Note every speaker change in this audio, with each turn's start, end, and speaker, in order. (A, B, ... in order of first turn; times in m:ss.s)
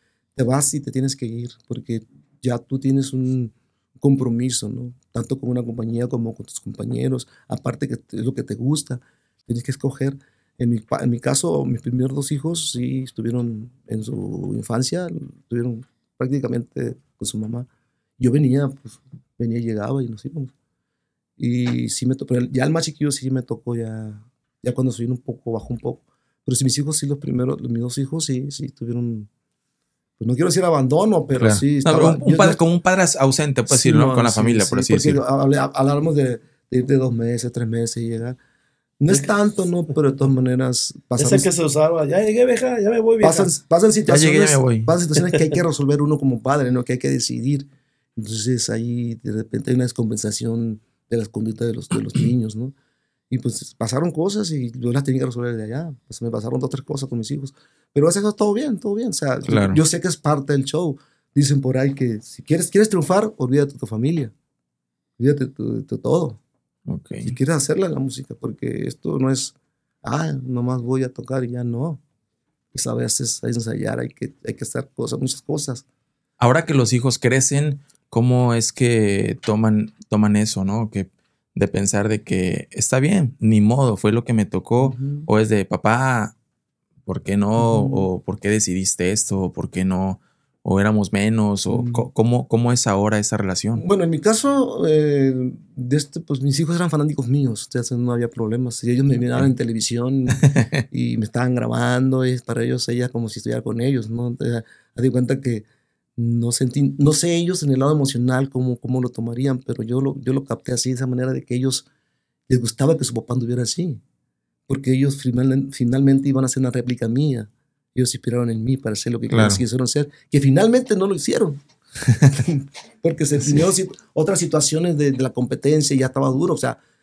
0:00.4-0:17.7 A
0:18.2-0:20.5 A
0:21.4-0:29.3 A
0:30.2-0:32.6 A
0:31.4-0:35.2 B
0:33.7-0:38.4 A
0:39.0-0:41.5 A
0:41.2-0:43.5 C
0:43.2-0:52.7 A
0:44.1-0:44.9 B
0:53.3-1:04.3 A
0:59.4-0:59.8 B
1:05.2-1:06.4 A
1:06.9-1:07.3 B
1:07.2-1:12.0 A
1:12.7-1:15.8 A
1:16.4-1:26.3 B
1:24.8-1:25.3 A
1:27.0-1:33.8 B
1:27.6-1:28.1 A
1:31.7-1:32.1 A
1:33.8-1:45.6 A
1:40.4-1:40.7 B
1:46.2-1:51.8 A
1:52.5-1:54.0 A
1:54.7-2:01.6 A
1:59.3-1:59.6 B
2:02.4-2:06.8 A